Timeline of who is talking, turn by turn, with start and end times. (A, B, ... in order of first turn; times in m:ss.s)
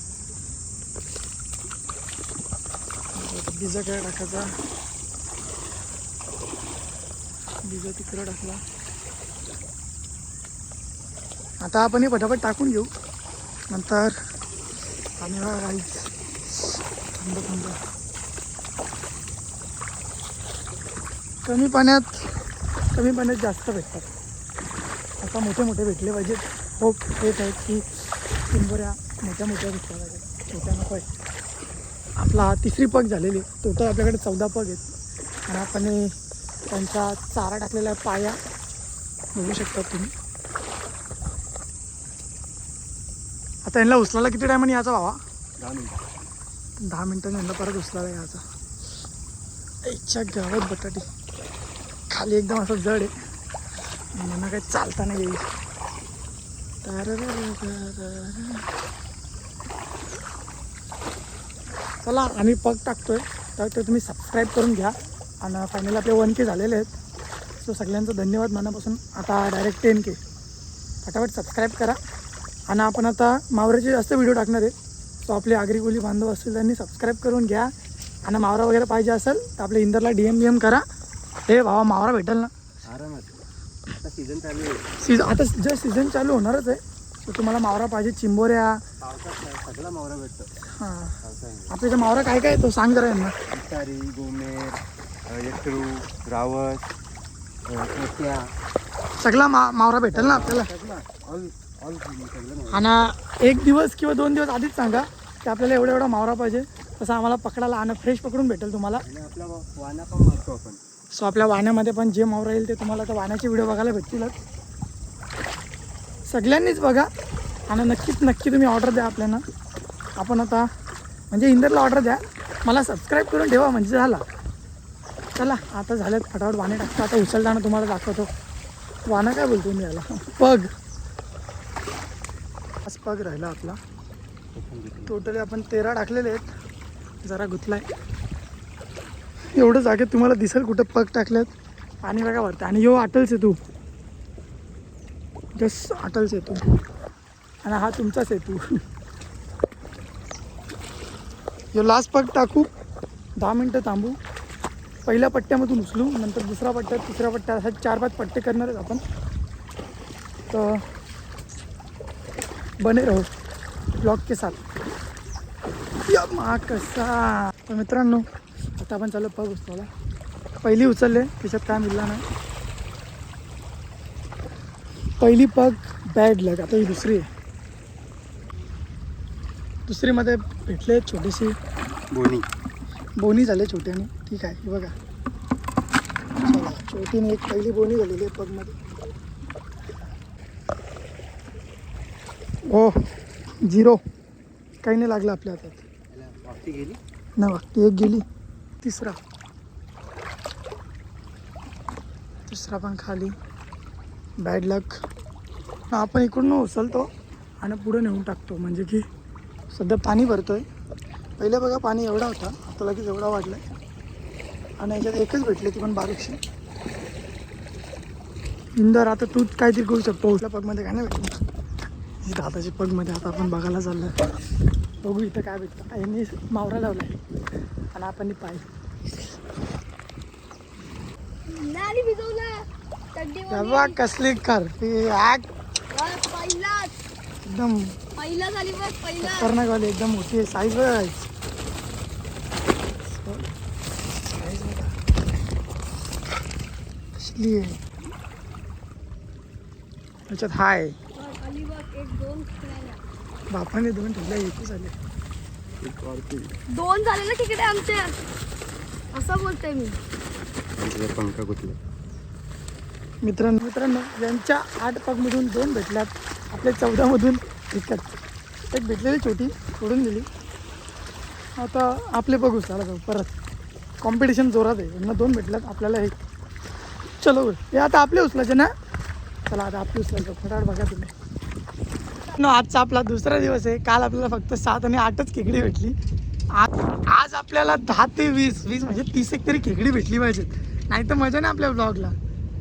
0:03.2-0:04.5 A
0:07.6-0:08.6 A
0:11.6-0:12.9 A
0:13.7-0:14.1 A
0:15.2-0:16.1 A
0:17.2-0:17.8 A
0:21.4-0:22.3 A
0:22.9-0:24.1 A
0:25.2-0:27.8 A
0:28.5-0:31.1 A
0:32.2-0:34.9 A
0:35.5-0:36.1 A
0:36.7-0:38.4 A
0:39.3-0:40.1 A
0:43.7-0:45.2 A
0:45.6-0:46.1 B
0:46.8-0:48.4 A
0:49.8-0:51.1 A
0:52.1-0:53.1 A
0:54.2-0:55.4 A
0:56.8-0:58.7 A
1:02.0-1:07.0 A
1:07.6-1:10.2 A
1:11.0-1:12.0 A
1:12.7-1:17.7 A
1:18.2-1:20.8 A
1:21.5-1:22.5 A
1:22.9-1:23.4 B
1:24.0-1:24.8 B
1:25.0-1:28.8 A
1:29.0-1:30.5 B
1:30.8-1:31.2 A
1:31.2-1:31.8 B
1:31.7-1:33.3 A
1:33.5-1:36.8 B
1:37.7-1:38.5 B
1:39.2-1:40.7 A
1:40.1-1:42.9 B
1:42.7-1:49.0 A
1:49.0-1:50.8 B
1:51.1-1:54.4 A
1:56.3-1:57.1 A
1:57.7-1:59.4 A
2:00.2-2:00.6 A
2:01.3-2:04.2 A
2:05.4-2:08.3 A
2:09.1-2:10.7 A
2:12.8-2:13.8 A
2:14.6-2:15.1 B
2:15.1-2:16.5 A
2:17.2-2:17.9 A
2:19.6-2:21.5 A
2:22.0-2:23.6 A
2:25.6-2:26.6 A
2:27.6-2:28.6 A
2:31.7-2:32.7 A
2:33.4-2:34.2 A
2:35.0-2:39.0 A
2:40.5-2:40.8 A
2:42.8-2:43.2 A
2:44.0-2:44.6 A
2:46.1-2:48.2 A
2:48.8-2:49.9 A
2:50.6-2:52.2 A
2:55.2-2:57.3 A
2:59.9-3:01.5 A
3:02.1-3:02.4 B
3:03.2-3:04.9 A
3:06.4-3:08.8 A
3:12.7-3:13.1 A
3:13.6-3:14.0 A
3:14.8-3:15.8 A
3:16.1-3:17.0 B
3:17.4-3:18.2 A
3:18.8-3:19.2 A
3:22.5-3:23.3 A
3:24.4-3:25.0 A
3:25.9-3:27.1 A
3:27.6-3:29.0 A
3:29.7-3:30.6 A
3:31.4-3:33.6 A
3:34.8-3:36.4 A
3:38.8-3:41.4 A
3:42.2-3:44.1 A
3:45.0-3:47.2 A
3:47.9-3:48.6 A
3:51.5-3:54.0 C
3:53.5-3:55.5 A
3:55.9-3:56.9 C
3:57.4-3:58.0 A
3:58.2-3:59.5 C
3:59.2-4:01.2 A
4:03.0-4:03.5 A
4:04.3-4:04.9 A
4:07.2-4:07.8 A
4:10.3-4:10.9 A
4:11.1-4:13.0 C
4:13.5-4:14.9 A
4:15.8-4:16.5 B
4:16.7-4:18.2 C
4:19.1-4:20.0 C
4:20.8-4:21.8 B
4:23.2-4:28.2 A
4:28.7-4:30.3 A
4:31.6-4:33.3 A
4:34.0-4:36.2 A
4:37.2-4:38.7 A
4:39.5-4:41.1 A
4:42.3-4:45.9 A
4:46.6-4:52.1 A